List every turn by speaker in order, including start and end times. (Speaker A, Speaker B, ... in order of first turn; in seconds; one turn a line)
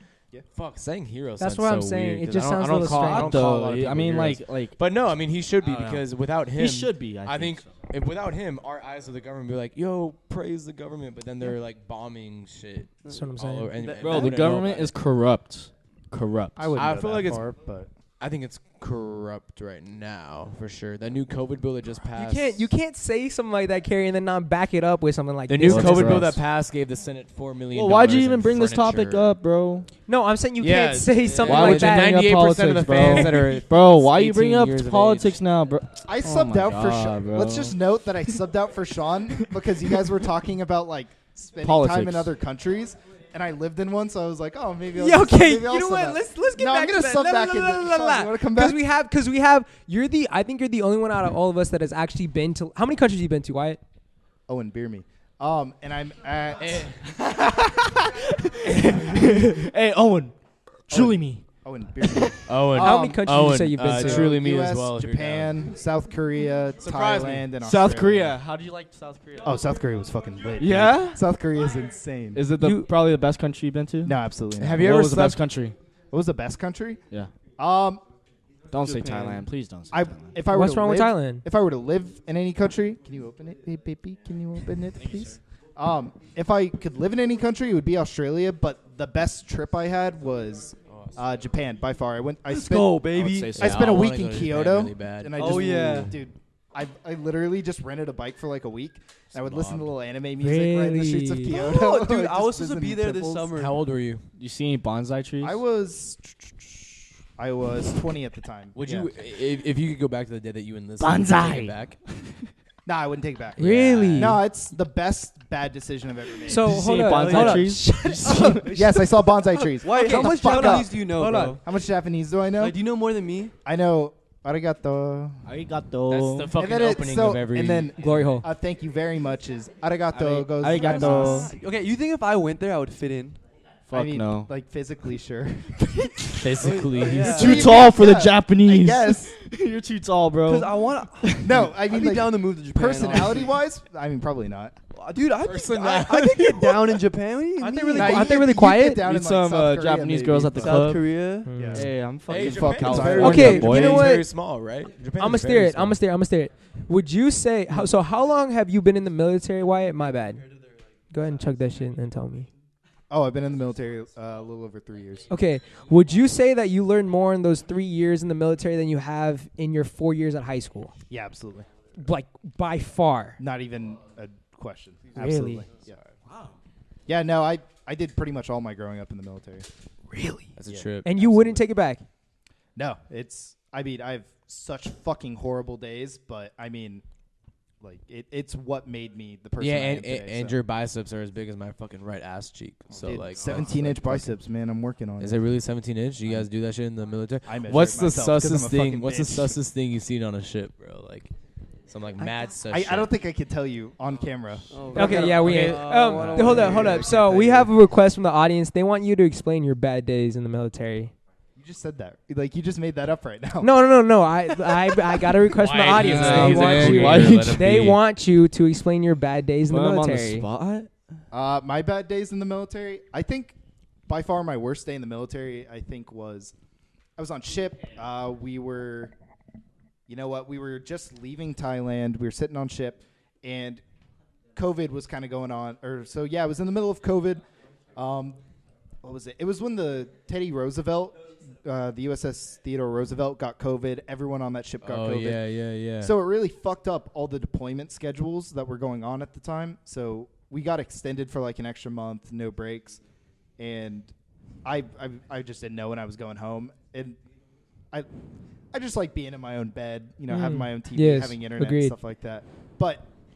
Speaker A: 0.5-14.9
Speaker B: 1.4-3.5
Speaker C: 2.8-4.7
Speaker C: 5.6-6.0
Speaker C: 6.5-7.7
Speaker D: 13.0-14.5
Speaker B: 13.1-13.7
Speaker C: 14.0-16.7
Speaker E: 16.6-17.9
Speaker A: 16.7-17.5
Speaker A: 18.2-22.7
Speaker B: 22.1-26.3
Speaker A: 25.5-29.4
Speaker C: 25.6-26.4
Speaker C: 27.7-29.9
Speaker B: 30.1-32.2
Speaker A: 30.6-35.4
Speaker C: 31.4-37.8
Speaker E: 36.0-48.8
Speaker C: 41.6-42.3
Speaker B: 45.0-53.8
Speaker E: 54.5-57.0
Speaker A: 56.6-57.0
Speaker E: 58.8-60.1
Speaker C: 58.9-60.3
Speaker E: 60.9-63.3
Speaker C: 60.9-61.4
Speaker A: 62.5-65.6
Speaker B: 62.8-64.3
Speaker E: 63.8-68.4
Speaker A: 66.8-67.5
Speaker C: 67.5-69.5
Speaker E: 69.4-72.5
Speaker C: 70.6-71.2
Speaker C: 72.3-74.2
Speaker B: 72.6-72.9
Speaker E: 74.0-74.8
Speaker A: 74.6-75.4
Speaker C: 74.7-75.8
Speaker E: 76.1-78.0
Speaker C: 78.7-80.4
Speaker E: 79.9-103.5
Speaker B: 80.5-81.4
Speaker C: 84.9-85.3
Speaker A: 90.9-91.1
Speaker D: 92.5-93.6
Speaker C: 93.1-94.0
Speaker A: 93.6-95.6
Speaker D: 95.3-96.2
Speaker C: 95.5-96.1
Speaker A: 99.3-99.9
Speaker B: 100.4-101.6
Speaker D: 101.5-103.8
Speaker A: 103.5-104.2
Speaker C: 104.4-105.6
Speaker E: 105.4-109.1
Speaker A: 108.7-112.0
Speaker C: 111.0-111.7
Speaker E: 112.8-116.7
Speaker B: 113.6-114.4
Speaker A: 113.6-114.4
Speaker B: 116.5-118.9
Speaker C: 116.6-118.8
Speaker D: 117.1-119.0
Speaker E: 118.6-122.8
Speaker D: 119.8-121.6
Speaker B: 119.8-121.6
Speaker D: 122.6-123.5
Speaker E: 123.6-125.5
Speaker C: 125.5-126.5
Speaker A: 126.1-128.3
Speaker E: 126.5-131.5
Speaker B: 128.0-128.5
Speaker C: 130.1-131.5
Speaker D: 130.8-133.4
Speaker C: 133.9-134.5
Speaker E: 133.9-139.4
Speaker A: 136.4-137.6
Speaker D: 136.6-137.8
Speaker C: 137.2-141.6
Speaker D: 140.4-143.6
Speaker E: 141.4-144.7
Speaker D: 144.9-148.4
Speaker A: 145.4-147.0
Speaker B: 147.6-149.1
Speaker E: 147.9-151.0
Speaker C: 149.0-154.2
Speaker D: 150.5-151.5
Speaker B: 151.4-151.9
Speaker E: 151.5-153.8
Speaker A: 152.3-156.0
Speaker B: 153.2-154.3
Speaker B: 155.2-160.4
Speaker B: 161.1-162.5
Speaker E: 163.1-165.3
Speaker B: 165.3-170.9
Speaker E: 171.1-171.7
Speaker B: 172.0-173.4
Speaker E: 173.4-176.0
Speaker B: 175.1-175.7
Speaker E: 177.1-179.7
Speaker B: 180.1-180.5
Speaker A: 180.6-181.6
Speaker E: 180.6-180.9
Speaker B: 181.0-182.0
Speaker E: 182.8-187.0
Speaker E: 187.8-190.5
Speaker A: 189.6-194.4
Speaker E: 192.9-195.5
Speaker A: 195.2-201.3
Speaker E: 197.4-199.6
Speaker A: 201.9-203.1
Speaker E: 202.7-207.7
Speaker D: 204.7-207.2
Speaker B: 204.9-211.1
Speaker A: 205.1-206.8
Speaker E: 211.6-213.7
Speaker B: 213.6-220.5
Speaker A: 215.5-218.0
Speaker C: 215.9-218.0
Speaker C: 219.7-220.9
Speaker E: 221.3-223.6
Speaker E: 224.1-226.5
Speaker E: 227.2-229.1
Speaker E: 230.1-233.8
Speaker E: 234.5-237.4
Speaker E: 237.9-238.4
Speaker E: 239.0-245.4
Speaker A: 244.8-246.1
Speaker E: 246.0-253.0
Speaker E: 253.6-254.1
Speaker E: 254.6-257.2
Speaker E: 258.7-263.1
Speaker B: 260.3-261.9